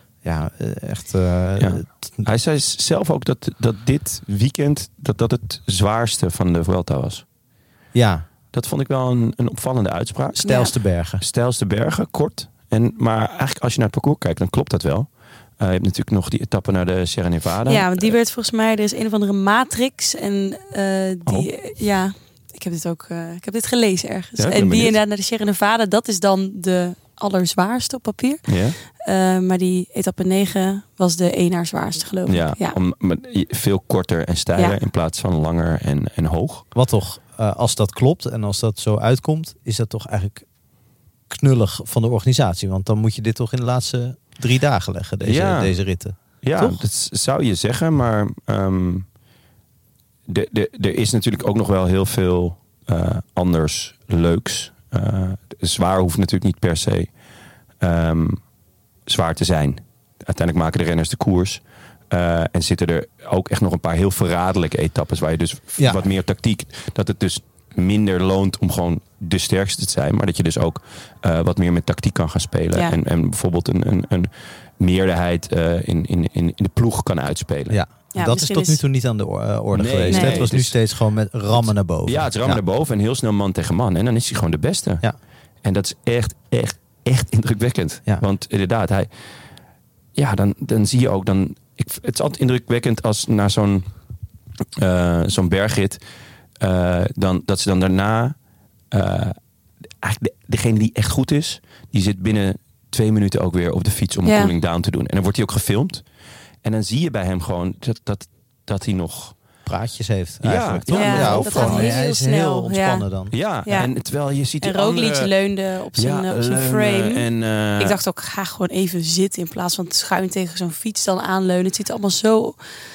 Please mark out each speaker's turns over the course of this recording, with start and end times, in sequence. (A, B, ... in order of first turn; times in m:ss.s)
0:00.2-0:02.3 A
0:01.6-0:07.2 B
0:07.9-0:08.3 A
0:08.5-0:10.5 B
0:10.4-0:11.2 A
0:10.4-0:10.7 C
0:11.2-0:15.1 B
0:15.6-0:18.1 B
0:17.7-0:32.8 C
0:24.4-0:25.0 B
0:28.5-0:28.8 B
0:32.3-0:36.6 B
0:36.7-0:40.4 A
0:41.3-0:46.8 A
0:45.2-0:45.8 B
0:46.4-0:49.1 B
0:50.3-0:57.1 B
0:57.8-0:58.4 B
0:59.1-1:17.8 B
1:17.7-1:22.6 A
1:18.1-1:18.8 C
1:19.7-1:20.8 B
1:20.1-1:20.4 C
1:21.6-1:25.0 B
1:25.6-1:29.1 B
1:30.2-1:33.9 B
1:34.8-1:36.0 B
1:36.6-1:38.4 B
1:38.9-1:39.4 B
1:40.0-1:46.0 B
1:44.2-1:44.5 C
1:46.6-1:49.4 B
1:49.7-1:53.3 A
1:50.4-1:51.9 B
1:50.9-1:53.0 C
1:53.3-1:55.3 B
1:54.6-1:57.3 C
1:56.0-1:58.0 B
1:57.8-2:02.6 C